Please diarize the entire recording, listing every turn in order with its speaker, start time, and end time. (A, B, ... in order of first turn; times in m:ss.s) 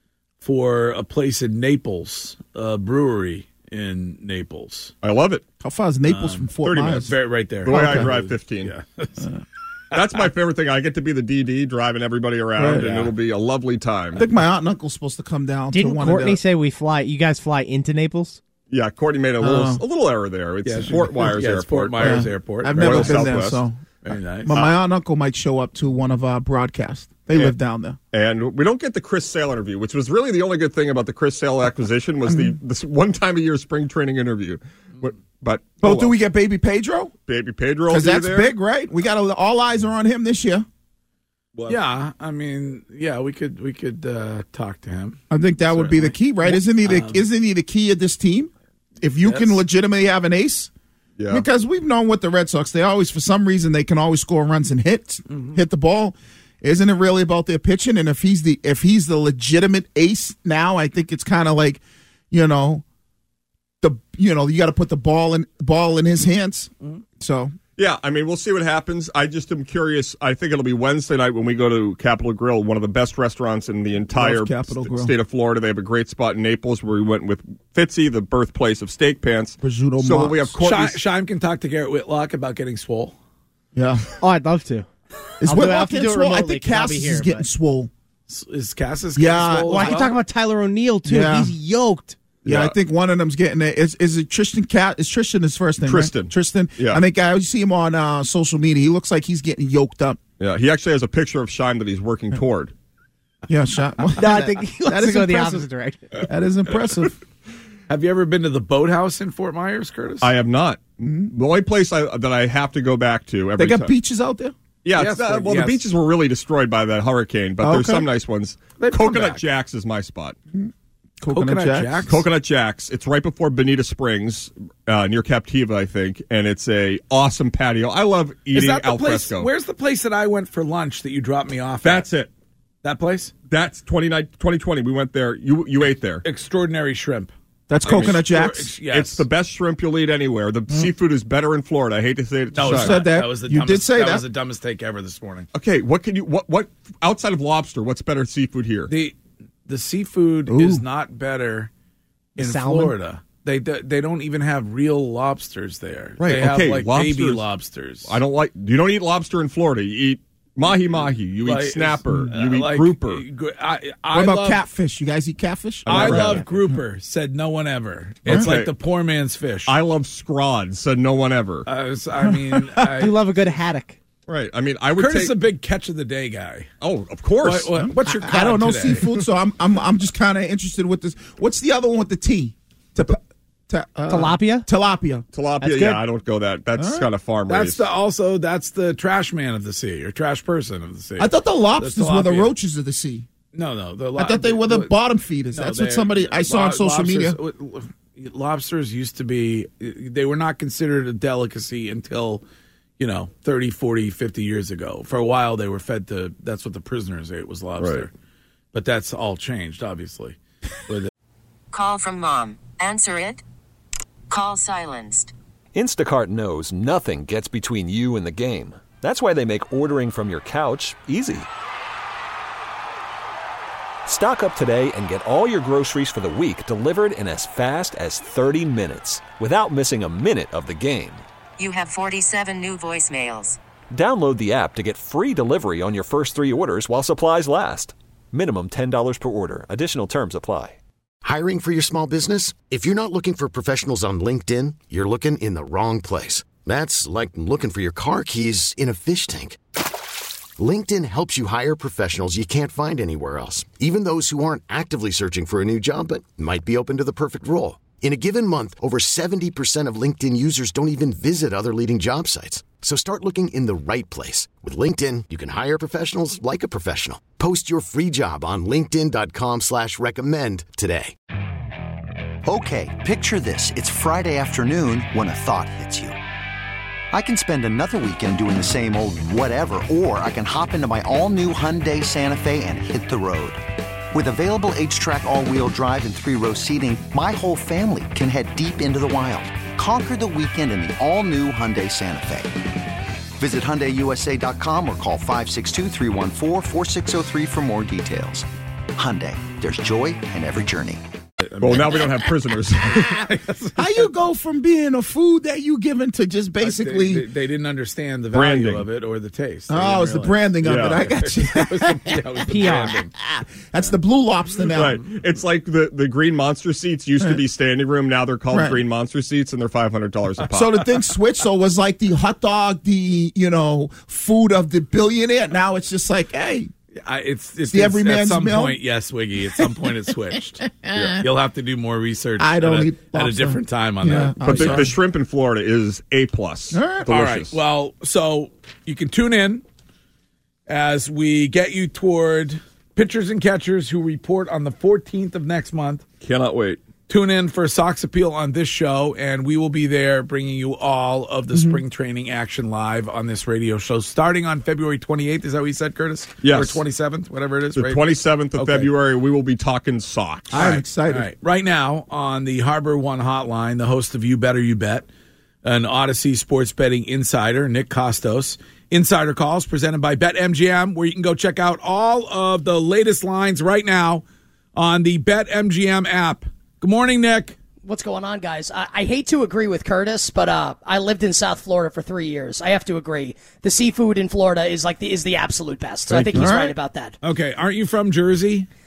0:00.4-0:04.9 A
0:05.0-0:05.4 B
0:05.6-0:07.1 C
0:06.1-0:09.3 A
0:06.6-0:07.1 B
0:07.6-0:08.7 B
0:07.6-0:08.1 C
0:09.9-0:14.2 B
0:12.6-0:13.1 C
0:14.2-0:16.4 C
0:15.7-0:18.4 D
0:18.7-0:23.6 B
0:19.4-0:19.8 C
0:20.6-0:23.5 A
0:22.0-0:23.8 C
0:24.0-0:24.6 A
0:24.4-0:28.0 C
0:28.1-0:36.2 B
0:32.3-0:32.5 C
0:35.8-0:37.1 C
0:37.3-0:38.5 B
0:37.9-0:40.7 C
0:41.7-0:45.2 A
0:45.3-0:50.7 C
0:45.7-0:47.2 A
0:49.2-0:49.6 A
0:51.2-0:51.4 B
0:51.3-1:02.8 C
1:03.8-1:07.5 C
1:07.8-1:21.0 B
1:14.1-1:15.1 C
1:19.6-1:20.5 C
1:20.6-1:23.2 A
1:23.8-1:24.0 C
1:24.2-1:24.9 D
1:25.4-1:27.9 C
1:25.4-1:27.5 D
1:28.3-1:30.2 A
1:29.2-1:30.1 C
1:29.6-1:32.2 D
1:31.0-1:31.5 C
1:32.4-1:32.8 B
1:32.5-1:40.2 C
1:35.8-1:37.0 B
1:40.4-1:42.7 B
1:43.5-1:45.7 C
1:44.2-1:46.2 D
1:46.2-1:47.2 C
1:47.9-1:50.3 A
1:50.2-1:53.9 B
1:51.0-1:51.3 C
1:53.6-1:54.5 C
1:54.8-2:00.4 B
1:55.0-1:55.8 A
1:57.6-1:58.1 C
1:58.8-1:59.4 A
2:00.5-2:02.1 C
2:01.3-2:02.2 A
2:02.1-2:09.5 B
2:08.5-2:12.1 A
2:11.8-2:12.3 B
2:12.8-2:13.3 A
2:13.5-2:16.2 B
2:16.2-2:17.3 A
2:17.7-2:18.7 C
2:17.8-2:19.2 A
2:17.8-2:18.2 B
2:18.9-2:23.0 B
2:22.5-2:25.5 A
2:22.6-2:24.2 C
2:25.5-2:28.9 B
2:28.9-2:29.2 A
2:29.7-2:31.7 A
2:30.5-2:30.8 C
2:32.4-2:38.2 A
2:32.4-2:33.0 D
2:36.2-2:37.4 B
2:38.1-2:43.2 B
2:41.4-2:44.6 A
2:44.1-2:46.5 C
2:45.9-2:46.4 B
2:45.9-2:49.8 A
2:48.3-2:48.7 B
2:49.7-2:51.7 B
2:51.7-2:53.2 A
2:52.3-2:52.8 C
2:52.9-2:54.0 D
2:54.3-2:55.4 B
2:55.0-2:56.7 A
2:56.8-2:57.7 B
2:57.4-2:59.1 A
2:57.8-3:05.2 C
3:04.1-3:04.7 D
3:05.3-3:07.8 B
3:05.6-3:06.0 D
3:06.8-3:07.1 C
3:07.5-3:12.5 A
3:11.2-3:13.3 C
3:13.5-3:14.9 A
3:14.2-3:17.4 C
3:15.5-3:22.4 A
3:23.0-3:28.1 A
3:27.8-3:28.1 B
3:28.7-3:30.4 A
3:31.7-3:33.4 E
3:34.3-3:35.3 E
3:35.7-3:41.5 F
3:44.0-3:51.2 F
3:51.6-3:53.6 E
3:53.9-4:00.8 F
4:01.2-4:09.6 G
4:10.6-4:31.2 G
4:32.4-4:36.2 H
4:37.1-4:52.6 H
4:53.4-5:01.0 H
5:01.4-5:02.4 A
5:01.6-5:03.3 B
5:02.9-5:03.9 A
5:03.8-5:07.3 C
5:06.6-5:13.1 A
5:08.3-5:08.9 B
5:09.7-5:15.0 C
5:10.6-5:11.1 B
5:12.5-5:13.0 D
5:14.8-5:20.8 B
5:18.5-5:18.8 C
5:20.5-5:26.7 C
5:27.0-5:35.0 A
5:27.7-5:28.8 C
5:30.8-5:31.1 C
5:32.4-5:34.9 C
5:34.4-5:37.5 B
5:36.7-5:37.2 C
5:37.1-5:39.6 A
5:40.7-5:46.0 A
5:46.2-5:46.8 B
5:47.1-5:58.0 A
5:51.5-5:51.8 C
5:56.4-5:56.8 B
5:57.7-6:00.7 B
5:58.5-5:58.9 A
6:00.5-6:05.1 A
6:00.5-6:01.3 C
6:05.6-6:14.2 A
6:14.8-6:17.6 A
6:17.8-6:27.2 I
6:26.2-6:26.6 A
6:26.3-6:26.8 C
6:27.2-6:28.7 A